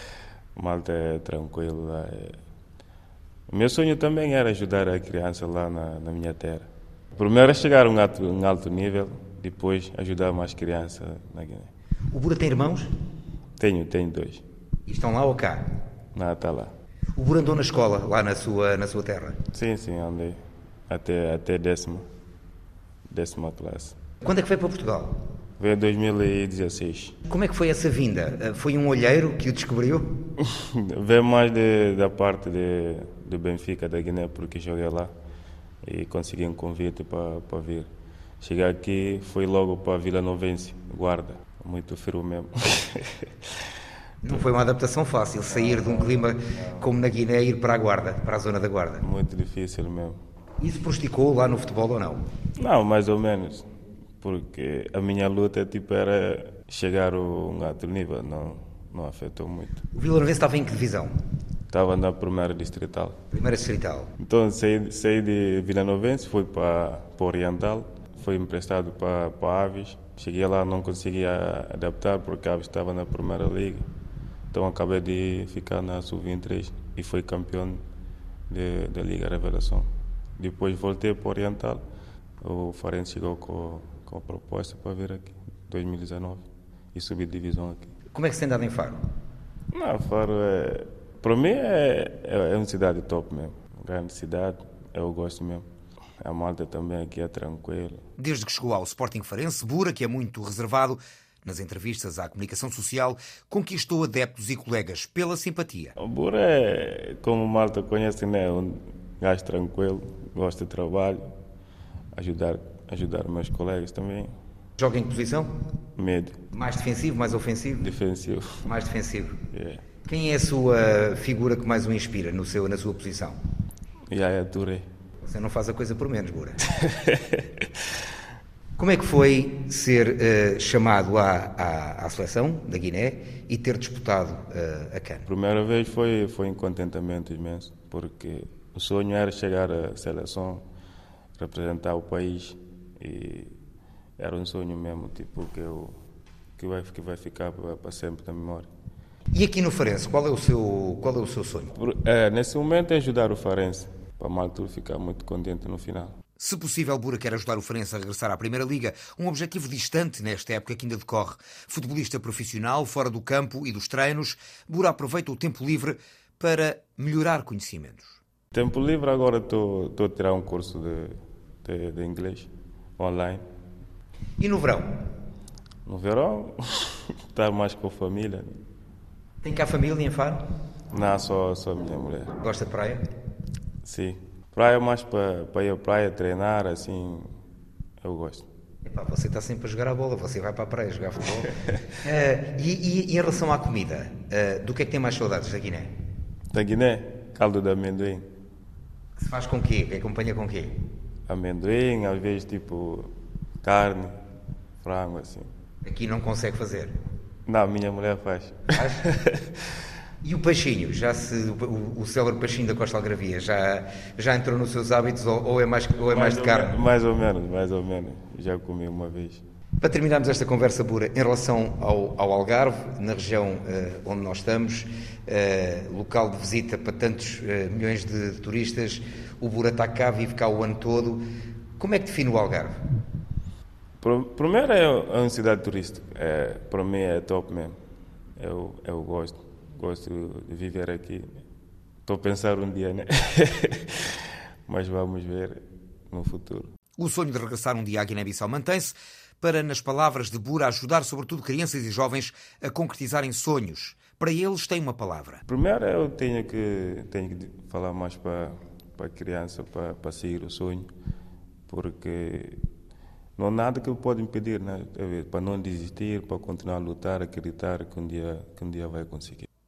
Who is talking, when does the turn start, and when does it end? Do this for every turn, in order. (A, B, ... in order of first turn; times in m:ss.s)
0:00.6-0:02.4 A
0:03.5-0:11.7 A
0:12.1-0:12.9 B
0:13.6-0:14.4 A
0:14.9-0:15.7 B
0:16.1-0:16.7 A
0:17.2-0:19.4 B
0:19.5-0:22.0 A
0:23.1-0:24.0 A
0:24.2-0:25.2 B
0:25.6-0:27.2 A
0:27.3-0:30.1 B
0:30.4-0:35.1 A
0:35.8-0:37.9 A
0:38.4-0:43.3 A
0:44.2-0:49.0 B
0:45.6-0:46.2 A
0:49.0-0:50.2 A
0:50.6-0:52.2 B
0:52.6-0:53.7 A
0:54.2-0:59.8 A
0:59.9-1:01.2 B
1:01.7-1:03.2 A
1:03.3-1:04.1 B
1:04.2-1:13.9 A
1:14.5-1:17.8 A
1:18.5-1:21.8 A
1:22.4-1:27.9 A
1:28.1-1:29.0 B
1:29.7-1:35.6 A
1:36.2-1:38.0 A
1:38.2-1:46.0 B
1:46.0-1:51.3 A
1:52.2-1:54.3 A
1:54.8-1:55.6 B
1:56.0-1:56.4 A
1:56.5-1:58.0 B
1:57.8-1:58.7 A
1:58.6-1:59.4 B
1:59.5-1:59.8 A
2:00.1-2:03.4 B
2:04.1-2:04.9 A
2:05.2-2:06.6 B
2:06.8-2:07.7 A
2:08.8-2:15.3 B
2:15.3-2:20.6 A
2:21.4-2:23.6 A
2:24.2-2:26.0 A
2:26.6-2:28.7 A
2:29.3-2:31.7 B
2:31.8-2:36.2 A
2:36.4-2:48.2 B
2:48.5-2:53.4 A
2:54.4-2:55.0 B
2:55.9-2:58.5 A
2:59.4-3:00.4 B
3:00.9-3:02.4 A
3:02.4-3:03.0 B
3:03.8-3:07.3 A
3:08.0-3:08.5 A
3:08.8-3:15.9 B
3:16.5-3:18.3 A
3:19.2-3:20.8 B
3:21.3-3:23.1 A
3:23.6-3:24.1 A
3:24.8-3:25.5 A
3:25.8-3:27.0 B
3:27.5-3:29.5 A
3:28.7-3:29.0 B
3:30.2-3:36.8 B
3:36.1-3:39.4 A
3:39.8-3:51.2 B
3:51.8-3:52.8 B
3:54.0-3:57.8 A
3:58.4-4:01.4 A
4:02.1-4:06.7 A
4:07.0-4:15.4 B
4:15.5-4:20.9 A
4:21.7-4:22.6 A
4:23.4-4:29.5 A